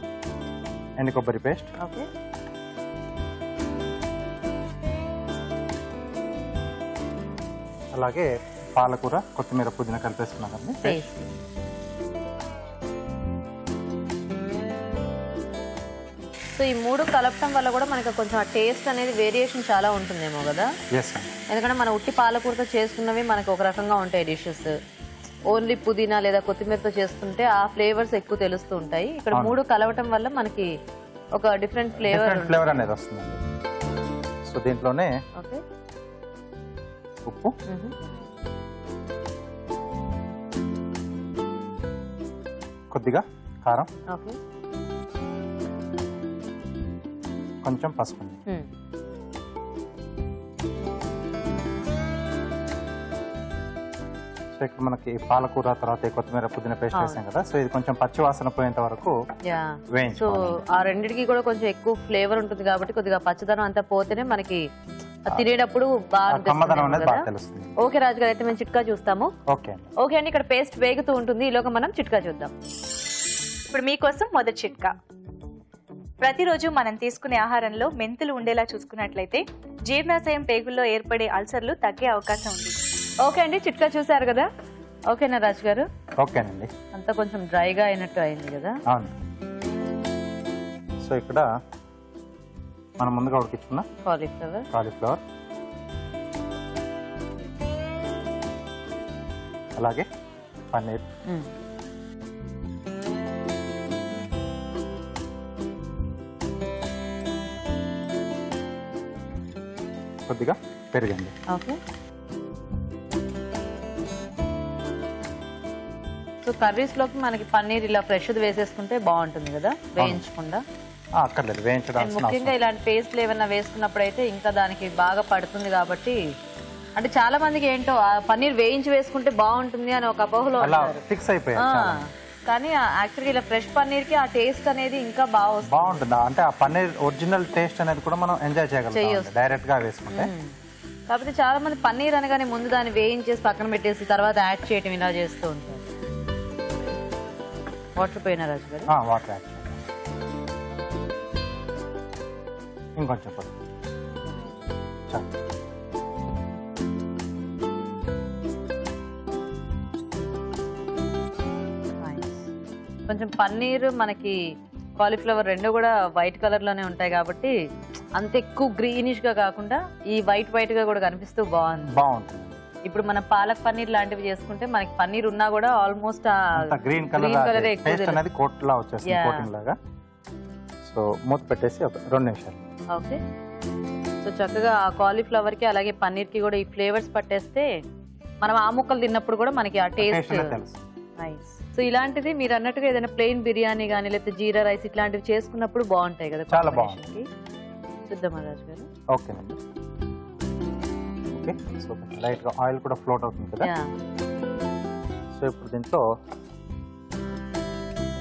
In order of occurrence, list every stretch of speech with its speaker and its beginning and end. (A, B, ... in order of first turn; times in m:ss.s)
0:01.0-0:01.7 A
0:01.8-0:02.1 B
0:08.0-0:11.0 A
0:10.8-0:11.2 B
0:16.6-0:20.7 B
0:20.9-0:21.3 A
0:21.5-0:24.8 B
0:25.5-0:30.7 B
0:29.3-0:29.6 A
0:31.4-0:32.8 B
0:32.0-0:33.4 A
0:34.4-0:35.1 A
0:35.4-0:35.6 B
0:37.2-0:37.6 A
0:37.7-0:37.9 B
0:42.9-0:43.9 A
0:44.1-0:44.4 B
0:47.6-0:48.4 A
0:54.6-0:59.2 A
0:56.9-0:57.2 B
0:59.4-1:04.6 B
0:59.9-1:00.6 A
1:05.3-1:07.3 B
1:06.3-1:07.8 A
1:07.8-1:09.3 B
1:09.5-1:09.9 A
1:10.0-1:12.5 B
1:13.7-1:14.9 C
1:16.2-1:22.7 C
1:23.2-1:24.5 B
1:25.1-1:25.9 B
1:26.2-1:26.7 A
1:26.9-1:28.8 B
1:28.9-1:29.2 A
1:31.0-1:31.5 A
1:33.0-1:33.9 A
1:34.0-1:34.7 B
1:34.7-1:35.2 A
1:39.8-1:40.1 A
1:40.7-1:41.1 A
1:50.3-1:51.4 A
1:51.5-1:51.8 B
1:56.4-2:00.6 B
2:00.0-2:00.2 A
2:01.2-2:02.5 A
2:02.0-2:06.2 B
2:07.0-2:11.0 B
2:10.6-2:12.0 A
2:11.6-2:16.0 B
2:15.7-2:20.3 A
2:18.9-2:19.4 B
2:20.1-2:20.5 B
2:21.1-2:25.8 B
2:28.0-2:28.9 B
2:28.9-2:29.8 A
2:33.0-2:33.6 A
2:35.1-2:35.4 A
2:42.0-2:42.5 B
2:43.1-2:44.4 B
2:45.0-2:47.5 B
2:48.2-2:52.0 B
2:51.9-2:52.6 A
2:52.9-2:58.2 B
2:56.6-2:59.8 A
2:59.0-2:59.5 B
3:00.8-3:02.7 A
3:02.9-3:03.2 B
3:04.2-3:07.7 B
3:08.4-3:10.6 B
3:10.0-3:10.9 A
3:11.2-3:17.3 B
3:16.5-3:17.0 A
3:18.1-3:18.9 B
3:19.1-3:19.6 A
3:21.3-3:23.7 A
3:23.6-3:23.9 B
3:25.3-3:26.0 A